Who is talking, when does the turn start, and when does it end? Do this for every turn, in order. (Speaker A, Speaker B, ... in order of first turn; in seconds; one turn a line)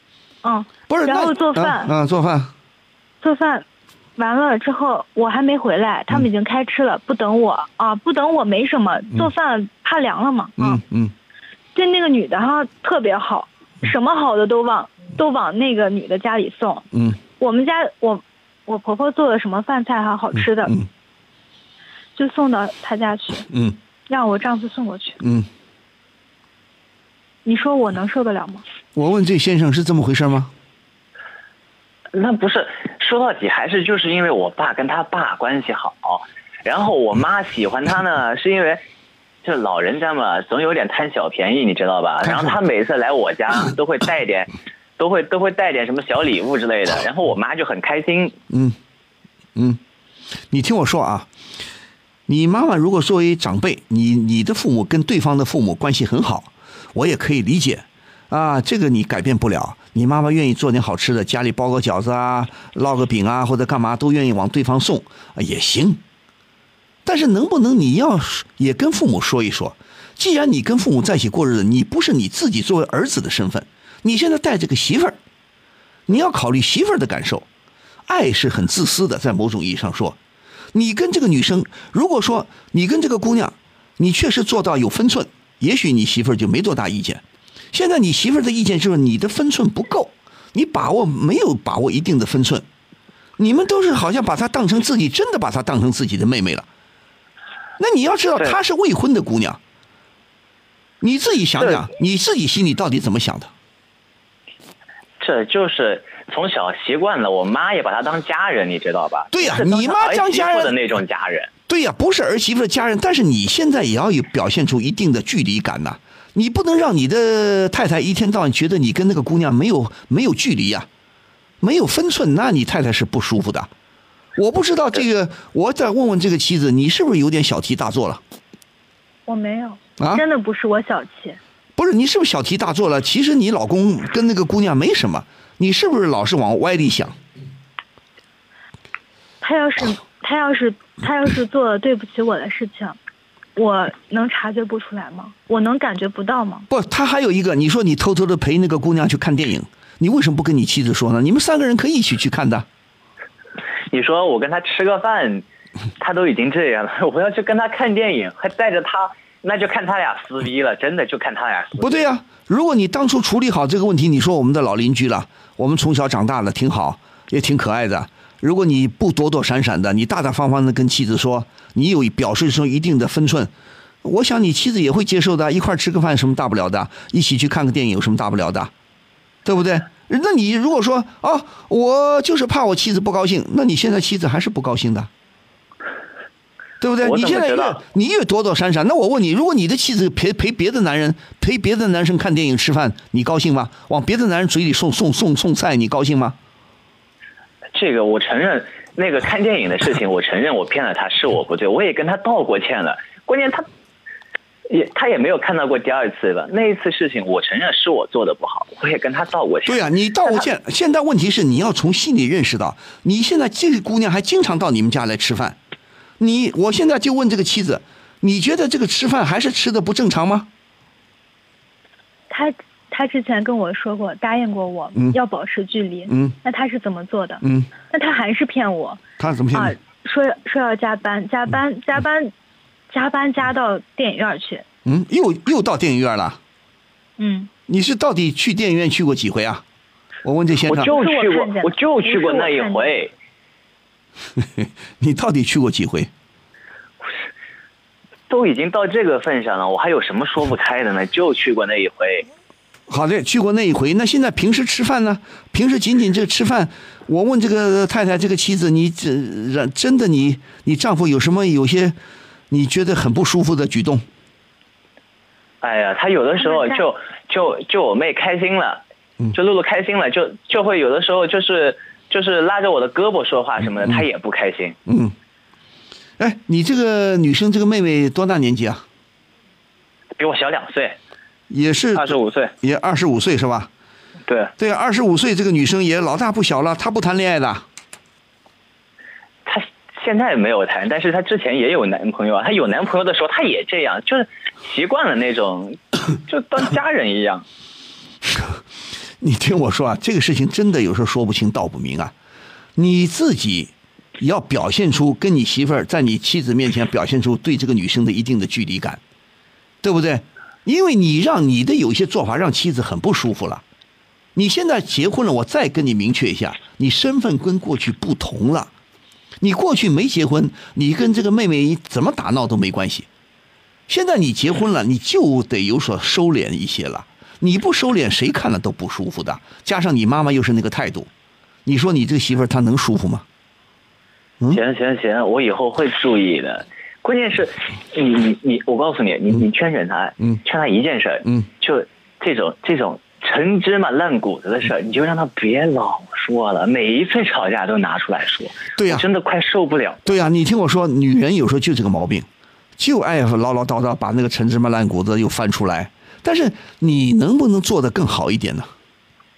Speaker A: 0.4-1.9
Speaker B: 0.9-2.5
Speaker A: 3.2-3.6
Speaker A: 4.2-10.8
Speaker B: 10.6-11.1
Speaker A: 11.7-16.9
Speaker B: 16.9-17.2
Speaker A: 17.4-20.8
Speaker B: 20.3-20.9
Speaker A: 22.1-23.5
Speaker B: 23.5-23.8
Speaker A: 24.1-25.2
Speaker B: 25.2-25.5
Speaker A: 27.4-28.6
Speaker B: 28.9-30.5
Speaker C: 32.1-38.8
Speaker C: 39.4-48.4
Speaker B: 42.2-42.5
Speaker B: 48.5-48.8
Speaker B: 50.5-51.3
Speaker B: 52.3-66.0
Speaker B: 67.0-75.2
Speaker B: 76.1-77.5
Speaker B: 78.1-80.2
Speaker B: 80.7-92.7
Speaker B: 93.4-96.7
Speaker B: 97.8-99.6
Speaker B: 101.0-103.5
Speaker C: 101.6-101.9
Speaker C: 105.2-111.5
Speaker B: 109.3-110.7
Speaker B: 111.7-120.9
Speaker B: 121.6-123.7
Speaker B: 124.3-128.2
Speaker A: 129.3-131.4
Speaker B: 130.0-130.2
Speaker B: 131.8-137.2
Speaker A: 139.4-143.0
Speaker A: 143.6-146.7
Speaker B: 146.7-152.7
Speaker C: 153.9-155.4
Speaker C: 156.0-162.1
Speaker B: 161.8-173.5
Speaker B: 174.0-178.7
Speaker B: 179.4-185.1
Speaker B: 186.8-196.3
Speaker C: 187.0-187.8
Speaker C: 197.7-203.7
Speaker C: 204.7-210.5
Speaker B: 209.7-215.6
Speaker B: 216.2-220.5
Speaker A: 222.3-229.0
Speaker B: 226.1-226.3
Speaker B: 227.4-227.7
Speaker B: 229.2-229.7
Speaker A: 229.5-232.3
Speaker A: 232.9-234.6
Speaker B: 234.8-236.4
Speaker A: 237.2-237.5
Speaker B: 237.7-239.6
Speaker B: 240.2-240.9
Speaker C: 240.7-243.1
Speaker A: 240.8-243.0
Speaker B: 244.4-246.1
Speaker C: 248.3-252.3
Speaker B: 252.9-262.0
Speaker B: 262.5-264.0
Speaker C: 265.6-268.8
Speaker A: 266.4-266.8
Speaker C: 269.3-274.8
Speaker B: 274.9-275.1
Speaker B: 276.2-278.8
Speaker C: 280.2-281.0
Speaker B: 281.5-283.7
Speaker C: 281.9-282.5
Speaker C: 284.3-284.5
Speaker B: 284.6-287.6
Speaker C: 289.4-297.4
Speaker B: 298.2-298.6
Speaker B: 299.2-302.1
Speaker B: 302.8-309.0
Speaker B: 309.8-313.6
Speaker B: 314.3-318.7
Speaker B: 319.4-323.1
Speaker B: 323.9-331.1
Speaker B: 331.6-333.2
Speaker C: 334.5-350.2
Speaker B: 348.8-349.0
Speaker B: 350.1-352.3
Speaker B: 352.8-358.7